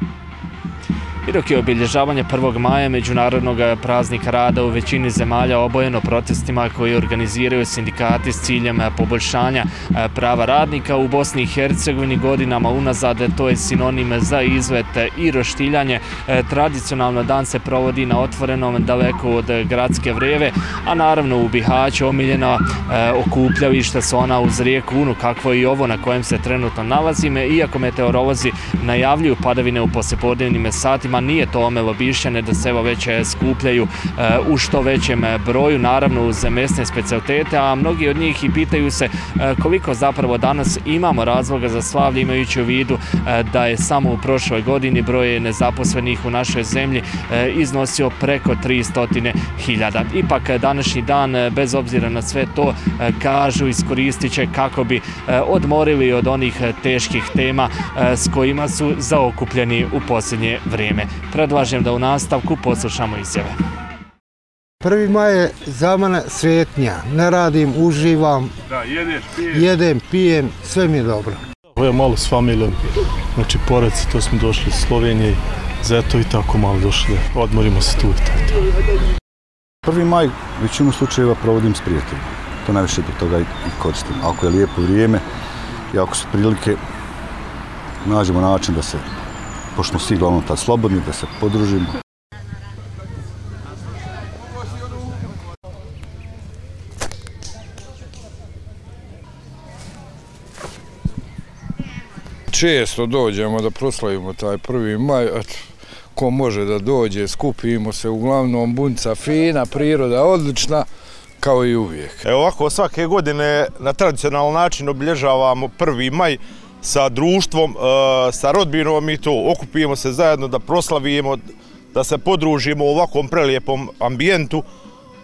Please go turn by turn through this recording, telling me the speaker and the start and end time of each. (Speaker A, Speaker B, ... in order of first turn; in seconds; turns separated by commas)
Speaker A: 1.2-63.5, Speaker B: 64.8-68.5, Speaker B: 69.4-71.4, Speaker C: 71.8-72.8, Speaker C: 73.4-78.5, Speaker D: 79.8-85.2, Speaker D: 85.9-86.8, Speaker D: 88.0-89.1, Speaker D: 89.8-91.9, Speaker E: 102.5-110.9, Speaker E: 111.4-112.2, Speaker F: 112.2-124.6